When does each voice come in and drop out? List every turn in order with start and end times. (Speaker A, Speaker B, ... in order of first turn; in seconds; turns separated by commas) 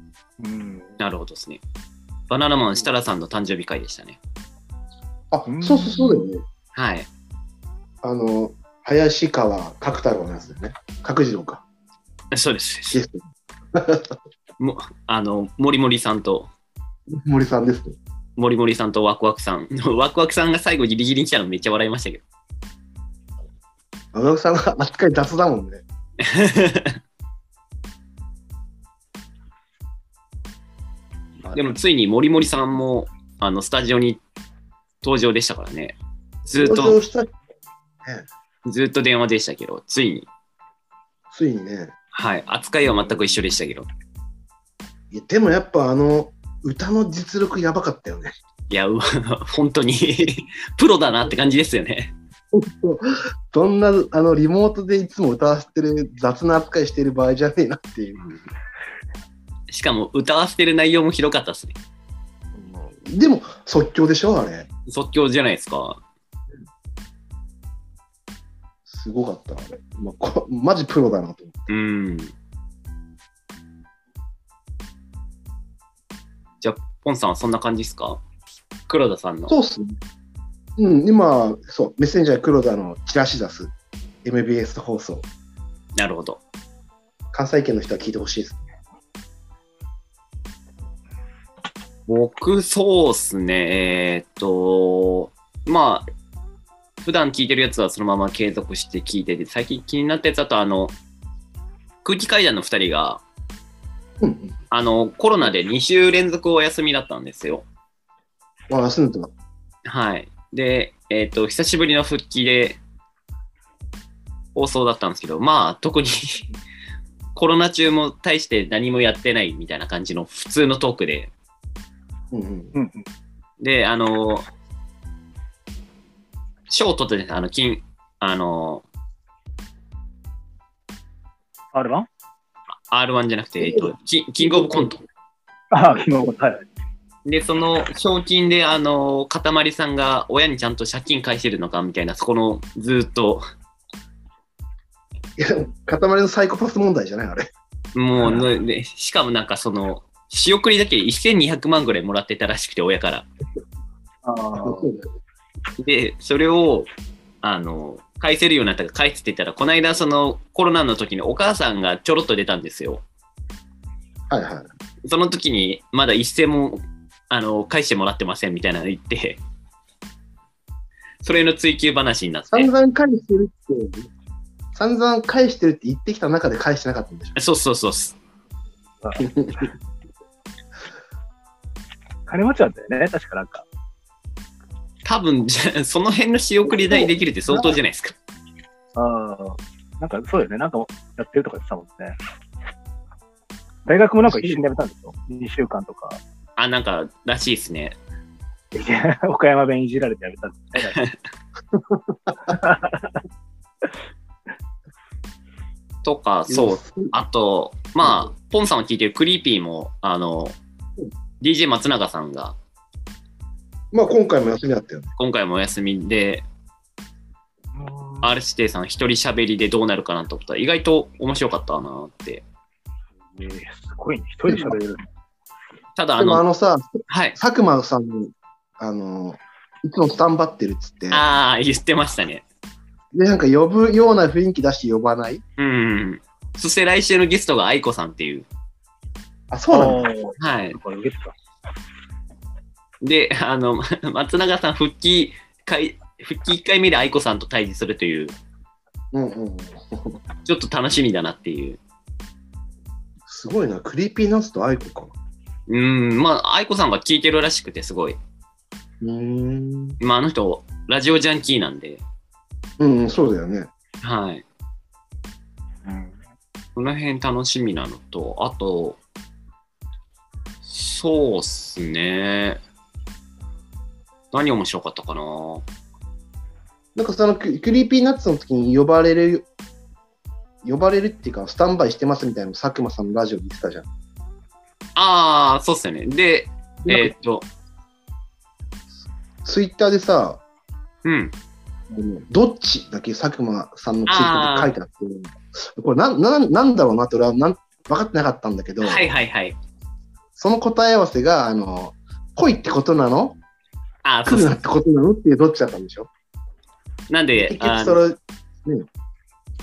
Speaker A: 0.4-1.0, Speaker B: 1.0-1.6, Speaker B: 2.3-4.2, Speaker C: 5.3-6.5, Speaker A: 5.5-6.3, Speaker B: 6.7-7.1, Speaker C: 8.0-11.6, Speaker B: 12.3-13.0, Speaker C: 12.9-14.2, Speaker B: 14.6-16.5, Speaker C: 17.1-18.0, Speaker B: 18.4-22.2, Speaker C: 24.1-25.8, Speaker B: 26.2-27.0, Speaker B: 31.5-34.2, Speaker B: 35.0-36.0, Speaker B: 36.5-37.0, Speaker C: 36.6-37.3, Speaker B: 38.6-40.3, Speaker C: 41.3-41.9, Speaker B: 42.1-43.9, Speaker C: 45.1-48.3, Speaker B: 48.7-52.1, Speaker C: 52.5-58.2, Speaker B: 58.2-58.5, Speaker B: 59.7-61.8, Speaker C: 62.5-64.7, Speaker B: 64.9-66.0, Speaker C: 68.9-71.7, Speaker B: 71.7-72.3, Speaker B: 76.6-78.2, Speaker B: 78.9-79.5, Speaker C: 79.5-80.0, Speaker C: 80.8-83.7, Speaker C: 84.2-85.3, Speaker B: 86.0-86.4, Speaker C: 87.3-88.7, Speaker B: 92.1-96.1, Speaker B: 97.0-100.9, Speaker B: 102.0-103.2, Speaker C: 104.2-104.6, Speaker B: 104.7-107.7, Speaker C: 108.7-109.3, Speaker B: 109.8-112.8, Speaker B: 114.5-116.5, Speaker B: 117.3-121.3, Speaker C: 122.3-122.7, Speaker A: 122.7-123.1, Speaker B: 123.6-124.5, Speaker B: 126.7-128.8, Speaker A: 131.7-132.1, Speaker B: 132.9-135.0, Speaker A: 135.7-136.7, Speaker B: 137.3-143.4, Speaker C: 145.4-147.5, Speaker B: 147.9-153.3, Speaker A: 154.2-154.9, Speaker C: 154.6-155.1, Speaker B: 155.8-156.9, Speaker B: 157.4-163.0, Speaker C: 164.3-164.7, Speaker B: 165.1-169.4, Speaker B: 171.2-172.7, Speaker C: 172.5-174.1, Speaker C: 174.8-177.3, Speaker B: 177.4-178.2, Speaker C: 179.2-179.7, Speaker A: 182.3-183.7, Speaker B: 185.1-188.2, Speaker C: 186.7-187.8, Speaker A: 189.0-192.2, Speaker A: 193.9-196.2, Speaker B: 196.6-198.0, Speaker A: 198.8-201.0, Speaker C: 201.7-202.5, Speaker A: 202.5-203.2, Speaker B: 206.0-210.6, Speaker C: 206.5-207.1, Speaker B: 211.4-212.6, Speaker C: 213.9-215.1, Speaker B: 215.2-216.4, Speaker A: 217.7-218.3, Speaker B: 218.2-222.4, Speaker A: 223.3-225.1, Speaker C: 224.5-224.8, Speaker B: 226.0-226.4, Speaker C: 226.2-231.3, Speaker B: 227.1-227.4, Speaker B: 231.1-232.4, Speaker C: 233.1-235.4, Speaker B: 235.6-238.5, Speaker C: 239.5-240.1, Speaker A: 239.7-241.3, Speaker B: 240.4-240.8, Speaker B: 243.0-248.3, Speaker C: 249.1-250.2, Speaker B: 250.4-251.8, Speaker C: 253.3-255.1, Speaker B: 255.7-258.2, Speaker C: 259.0-260.0, Speaker B: 260.0-262.0, Speaker C: 262.8-263.7, Speaker B: 264.0-264.4, Speaker A: 265.8-266.2, Speaker B: 266.8-269.0, Speaker B: 270.6-272.6, Speaker B: 274.3-275.6, Speaker C: 277.0-279.5, Speaker C: 280.6-283.9, Speaker B: 285.0-287.5, Speaker C: 286.9-287.1, Speaker C: 289.4-290.4, Speaker B: 291.1-291.3, Speaker C: 291.9-299.1, Speaker B: 294.1-294.7, Speaker B: 298.8-299.6, Speaker C: 300.4-303.4, Speaker B: 304.0-304.6, Speaker C: 304.3-306.1, Speaker B: 307.1-308.0, Speaker C: 307.4-308.9